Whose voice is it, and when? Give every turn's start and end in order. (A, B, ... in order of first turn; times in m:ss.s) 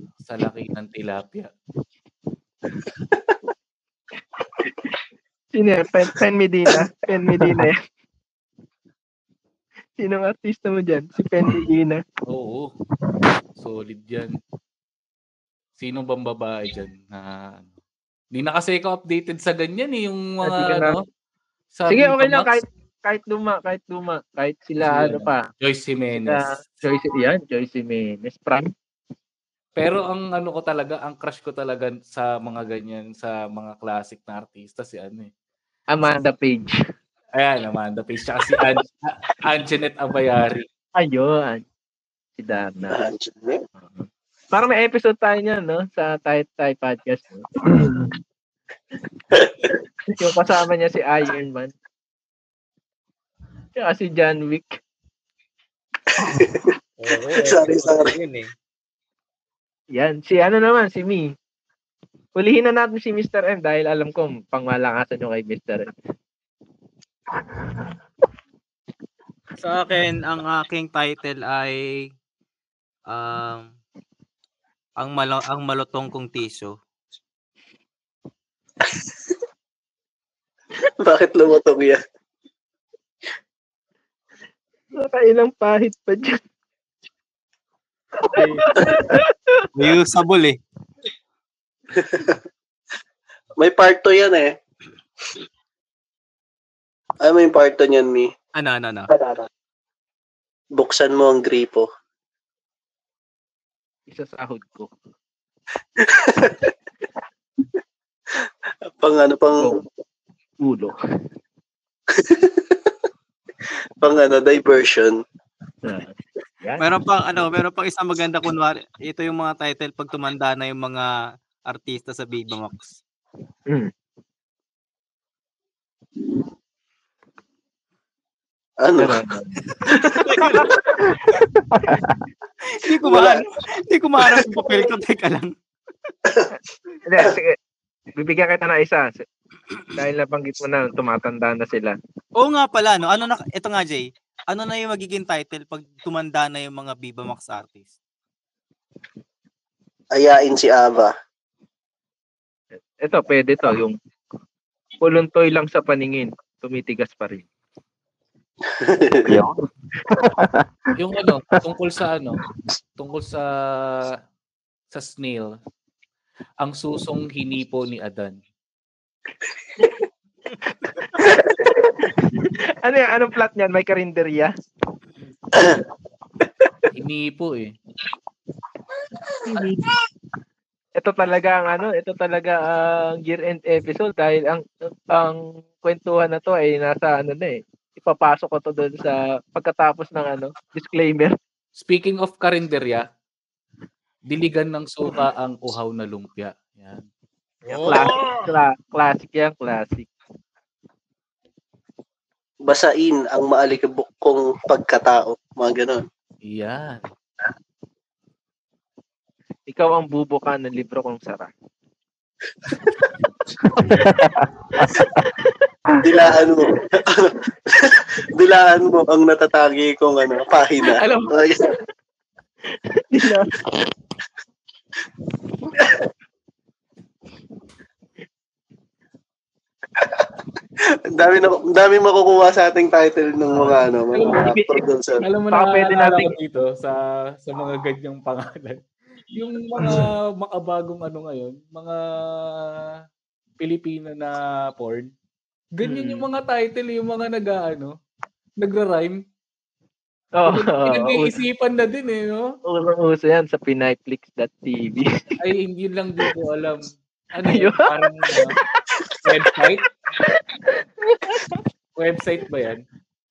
0:00.2-0:01.5 A
0:05.6-0:07.8 B
0:10.0-0:12.0 B
0:12.3-0:12.7 A
0:13.6-0:14.4 A
0:15.8-0:17.7 A
0:18.3-0:21.0 A
0:20.4-0:21.0 B
0:21.8-0:22.6 A
0:21.9-0:25.4 B
0:24.8-0:26.6 A
0:26.2-0:28.7 B
0:29.8-0:35.3 A
0:35.9-0:36.8 B
0:37.3-0:40.7 A
0:41.0-0:41.6 B
0:42.4-0:43.0 B
0:42.9-0:43.6 C
0:43.8-0:48.1 B
0:49.3-0:49.8 C
0:50.1-0:51.7 B
0:53.8-0:54.8 B
0:56.2-0:56.7 C
0:57.0-0:58.5 D
0:57.3-0:58.1 C
0:59.9-1:01.3 B
1:02.4-1:05.9 B
1:09.6-1:12.0 D
1:13.1-1:13.7 D
1:15.0-1:16.7 D
1:21.0-1:22.0 C
1:25.0-1:26.4 B
1:28.3-1:28.6 D
1:28.3-1:29.7 B
1:29.8-1:30.6 D
1:32.0-1:32.4 C
1:33.6-1:34.6 C
1:37.2-1:38.3 C
1:38.6-1:39.1 D
1:39.1-1:39.5 C
1:40.8-1:41.9 C
1:44.1-1:44.9 B
1:46.0-1:46.7 C
1:48.9-1:49.7 C
1:49.6-1:49.8 B
1:50.6-1:51.0 B
1:52.1-1:52.8 C
1:54.0-1:55.2 C
1:55.8-1:56.8 B
1:56.8-2:01.1 D
2:01.7-2:03.0 D
2:08.8-2:10.7 C
2:09.0-2:09.6 B
2:10.2-2:10.7 D
2:11.7-2:12.2 E
2:12.8-2:15.5 D
2:13.0-2:13.4 C
2:14.2-2:14.8 C
2:17.0-2:17.6 B
2:18.2-2:19.3 B
2:20.0-2:22.0 B
2:22.4-2:27.9 D
2:30.1-2:31.1 C
2:33.0-2:34.0 B
2:35.0-2:37.4 B
2:38.7-2:39.4 C
2:39.3-2:40.6 E
2:41.0-2:42.4 A
2:43.0-2:44.2 A
2:44.9-2:45.6 A
2:46.6-2:48.4 A
2:50.9-2:54.5 B
2:55.6-2:55.8 C
2:56.9-2:57.8 A
2:59.5-2:59.9 B
3:01.0-3:11.3 B
3:11.8-3:13.0 A
3:14.3-3:17.0 A
3:17.7-3:18.5 D
3:17.8-3:20.1 B
3:22.7-3:26.0 C
3:26.4-3:27.0 A
3:29.7-3:31.5 B
3:33.8-3:34.9 E
3:36.0-3:41.7 C
3:40.9-3:41.3 A
3:43.1-3:43.5 B
3:51.1-3:55.2 C
3:53.5-3:54.4 A
3:54.3-3:54.8 B
3:55.2-3:58.8 A
3:55.5-3:56.3 B
3:59.4-4:02.8 A
3:59.8-4:00.0 B
4:03.6-4:05.1 A
4:05.8-4:07.9 A
4:05.8-4:06.3 B
4:08.6-4:09.2 A
4:10.4-4:11.4 B
4:10.5-4:12.5 A
4:12.7-4:15.1 B
4:15.4-4:18.6 A
4:17.4-4:18.8 B
4:19.2-4:19.9 A
4:20.3-4:21.6 B
4:22.0-4:22.8 A